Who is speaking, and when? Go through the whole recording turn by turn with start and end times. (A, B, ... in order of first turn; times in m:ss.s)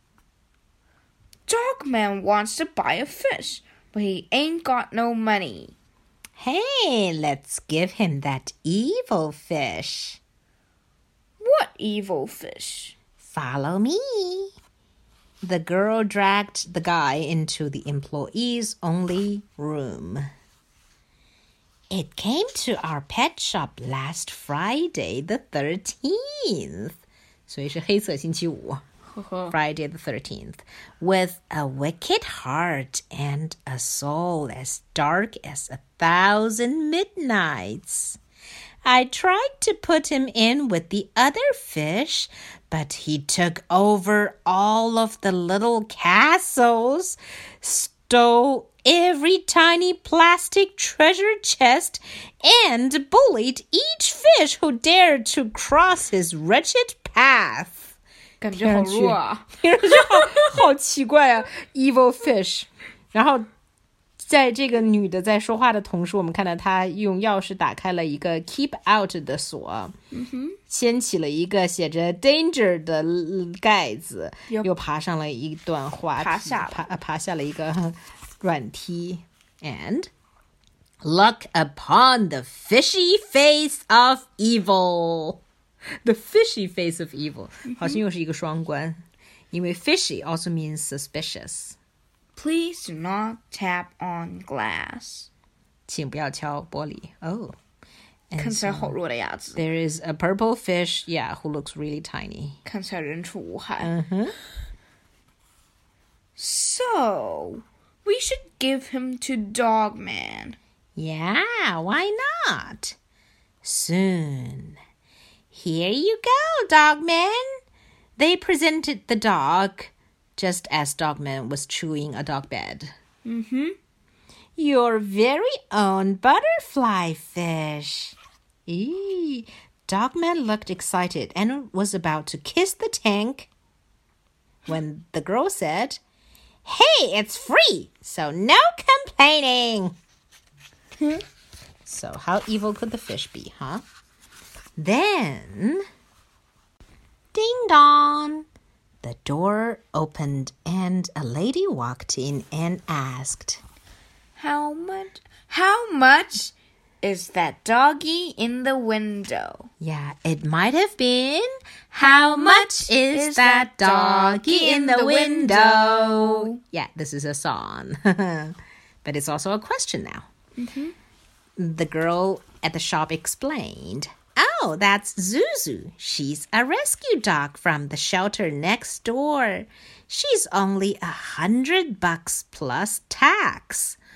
0:01.5-0:05.7 A
0:06.4-0:10.2 B
0:11.4-0:13.0 A
0:13.2-0:14.5 B
0:15.4-0:20.2 B
0:21.9-0:28.8 B
0:29.2-0:29.5 A
0:29.5-0:38.2 B
0:38.8-0:57.9 B
0:58.4-0:59.5 A
0:58.5-1:03.4 B
1:04.2-1:09.9 B
1:10.1-1:10.6 A
1:10.7-1:20.1 B
1:16.2-1:16.8 A
1:21.0-1:25.4 B
1:26.0-1:29.0 B
1:27.7-1:28.0 A
1:29.5-1:31.8 B
1:32.4-1:35.3 A
1:35.9-1:37.5 B
1:38.3-1:39.0 B
1:38.4-1:39.6 A
1:39.6-1:42.6 B
1:42.6-1:43.9 A
1:43.8-1:44.3 B
1:46.4-1:50.6 A
1:51.0-1:52.9 B
1:53.6-1:54.8 B
1:55.5-1:57.4 B
1:58.2-2:02.9 B
2:03.2-2:03.8 A
2:04.6-2:13.5 B
2:14.6-2:16.0 B
2:16.6-2:19.9 B
2:21.8-2:23.8 B
2:24.8-2:25.8 B
2:27.3-2:28.4 B
2:29.0-2:33.6 B
2:34.4-2:39.7 A
2:39.8-2:50.3 B
2:42.1-2:46.6 A
2:50.6-2:50.9 A
2:51.6-3:04.0 B